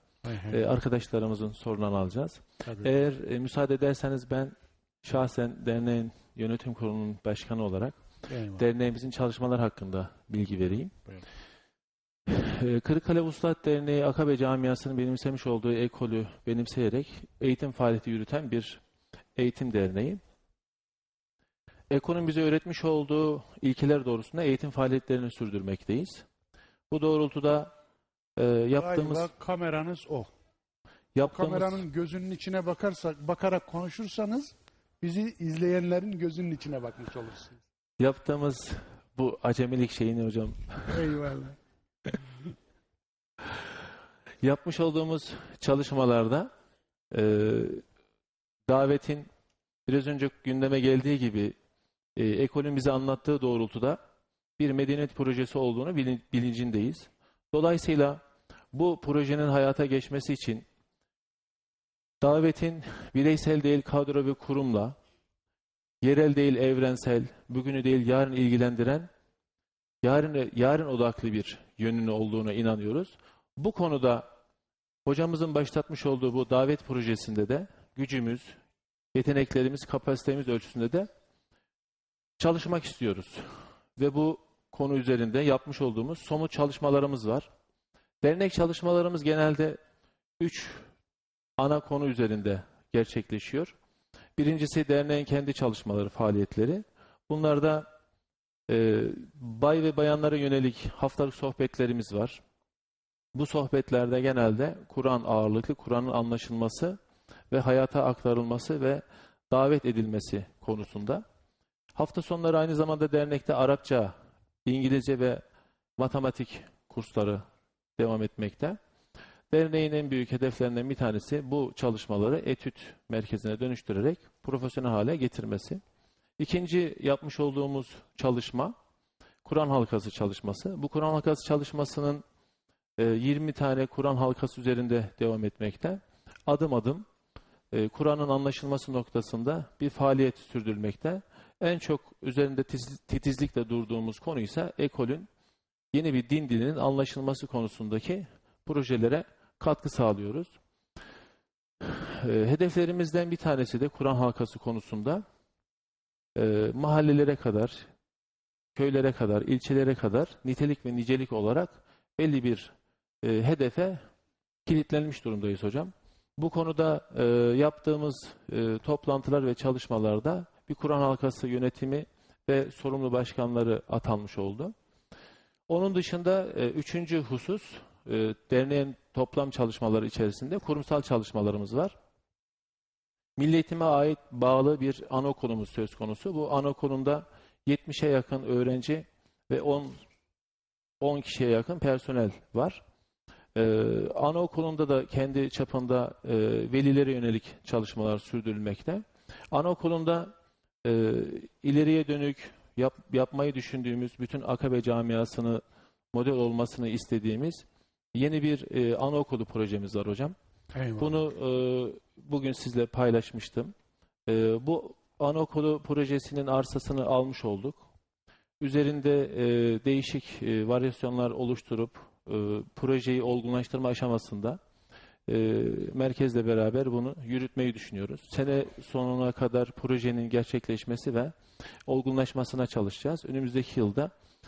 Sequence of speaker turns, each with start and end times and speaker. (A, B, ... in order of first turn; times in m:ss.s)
0:00.2-0:00.6 A
0:00.5-0:08.0 B
0:08.3-0:08.6 A
0:08.6-0:10.9 B
0:12.3-0:18.8 B
0:19.4-0:20.2 B
0:21.9-0:26.2 B
0:26.9-0:27.7 B
0:28.4-0:29.3 B
0:28.8-0:30.3 A
0:31.1-0:31.8 B
0:31.2-0:37.6 A
0:38.0-0:41.0 B
0:40.9-0:41.6 A
0:44.4-0:46.5 B
0:47.1-0:47.8 B
0:48.7-0:49.3 B
0:49.9-0:51.5 B
0:52.2-0:54.0 B
0:54.6-0:58.2 B
0:58.7-1:00.6 B
1:02.2-1:04.9 B
1:06.0-1:09.1 B
1:10.0-1:14.2 B
1:15.0-1:18.5 B
1:19.1-1:21.1 B
1:22.4-1:23.4 B
1:24.0-1:27.5 B
1:28.2-1:29.8 B
1:30.4-1:30.8 B
1:31.6-1:33.7 B
1:34.4-1:37.8 B
1:38.7-1:42.4 B
1:43.3-1:47.0 B
1:47.5-1:51.2 B
1:51.9-1:54.1 B
1:54.6-1:55.4 B
1:56.0-1:57.4 B
1:58.0-1:58.8 B
1:59.5-2:05.8 B
2:06.4-2:08.7 B
2:09.4-2:12.2 B
2:13.0-2:17.0 B
2:17.7-2:25.3 B
2:25.9-2:30.5 B
2:31.8-2:35.2 B
2:36.4-2:37.9 B
2:38.7-2:44.0 B
2:44.6-2:54.7 B
2:55.7-3:01.9 B
3:03.4-3:10.0 B
3:11.0-3:12.8 B
3:13.5-3:20.3 B
3:20.8-3:25.6 B
3:26.1-3:30.3 B
3:30.7-3:31.2 A
3:31.0-3:33.7 B
3:34.3-3:37.9 B
3:38.6-3:44.6 B
3:45.3-3:51.3 B
3:51.9-3:54.1 B